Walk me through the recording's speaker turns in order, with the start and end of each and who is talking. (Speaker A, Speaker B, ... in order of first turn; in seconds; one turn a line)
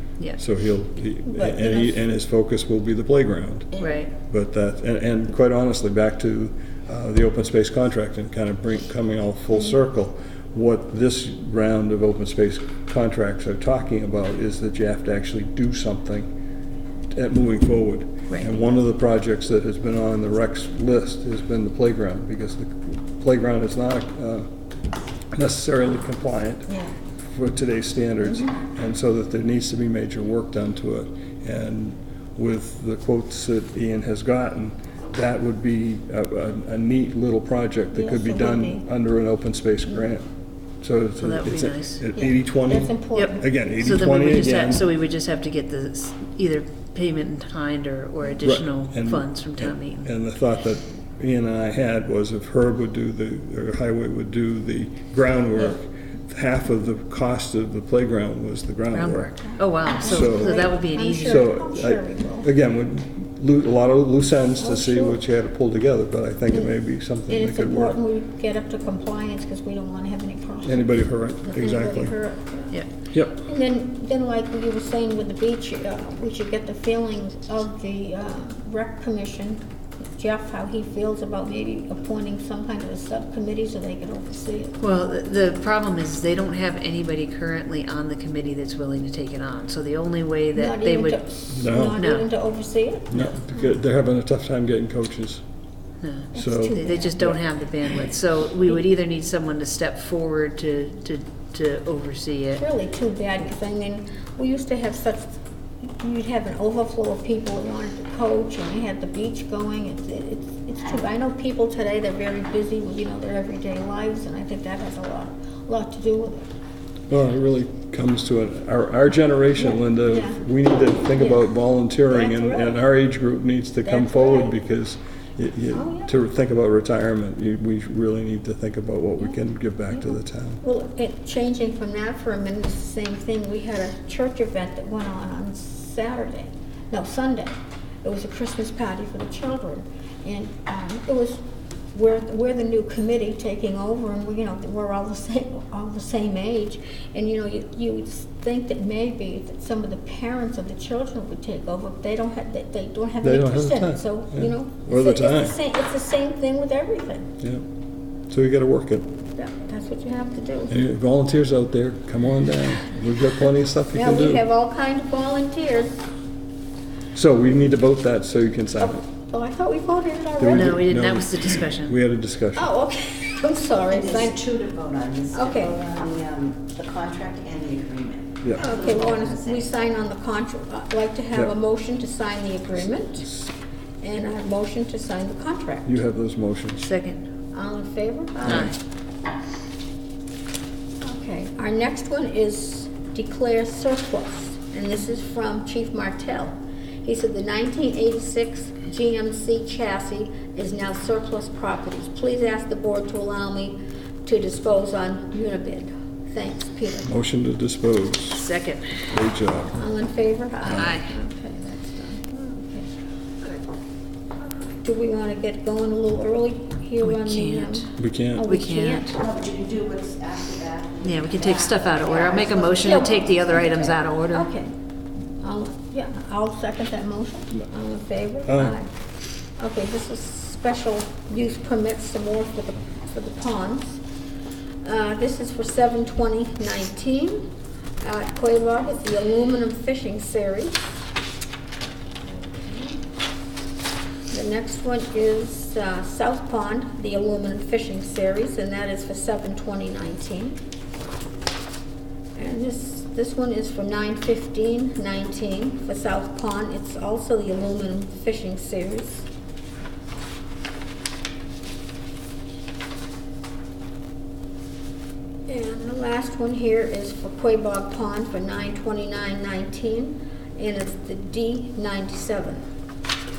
Speaker A: 0.4-16.3
Speaker B: 1.2-2.0
Speaker C: 3.8-4.1
Speaker A: 17.1-24.5
Speaker A: 25.3-26.7
Speaker B: 26.7-26.9
Speaker A: 27.2-40.3
Speaker B: 37.9-38.8
Speaker A: 40.8-44.8
Speaker C: 41.2-42.0
Speaker B: 42.1-43.4
Speaker C: 43.1-50.1
Speaker A: 48.4-59.3
Speaker C: 58.9-61.4
Speaker B: 59.5-62.5
Speaker A: 60.0-60.7
Speaker A: 61.2-68.0
Speaker B: 64.6-65.2
Speaker B: 67.3-72.8
Speaker A: 70.6-72.1
Speaker A: 73.1-73.4
Speaker B: 73.3-84.8
Speaker C: 84.8-91.2
Speaker B: 90.5-93.7
Speaker A: 91.5-92.0
Speaker C: 92.0-92.3
Speaker A: 93.1-95.4
Speaker C: 96.0-102.6
Speaker B: 96.3-97.3
Speaker A: 96.3-97.3
Speaker B: 102.6-116.5
Speaker A: 117.1-130.6
Speaker B: 119.5-120.4
Speaker B: 121.2-121.4
Speaker B: 122.1-122.8
Speaker B: 123.8-124.5
Speaker B: 125.7-126.1
Speaker B: 130.0-157.3
Speaker A: 153.2-155.6
Speaker A: 158.3-159.1
Speaker B: 159.3-160.8
Speaker A: 160.7-164.4
Speaker B: 163.9-166.0
Speaker A: 167.1-169.0
Speaker B: 168.8-170.8
Speaker A: 170.4-172.7
Speaker C: 170.5-171.9
Speaker B: 172.6-174.4
Speaker D: 173.9-179.7
Speaker B: 175.3-176.1
Speaker B: 178.5-183.3
Speaker B: 184.0-186.0
Speaker A: 185.8-186.9
Speaker C: 186.8-187.2
Speaker B: 187.5-188.8
Speaker C: 188.4-188.7
Speaker B: 191.0-207.1
Speaker A: 207.0-208.4
Speaker C: 208.3-209.0
Speaker A: 209.0-209.8
Speaker B: 209.8-212.9
Speaker A: 210.7-210.9
Speaker C: 210.7-211.1
Speaker B: 214.6-219.2
Speaker C: 217.0-217.9
Speaker A: 218.0-218.4
Speaker C: 218.4-219.2
Speaker D: 219.1-224.0
Speaker C: 221.0-224.5
Speaker B: 222.8-223.2
Speaker B: 224.3-224.7
Speaker B: 225.4-228.9
Speaker A: 228.4-228.8
Speaker B: 229.6-234.0
Speaker B: 234.8-241.0
Speaker B: 244.3-250.6
Speaker B: 252.3-259.3
Speaker B: 265.5-272.6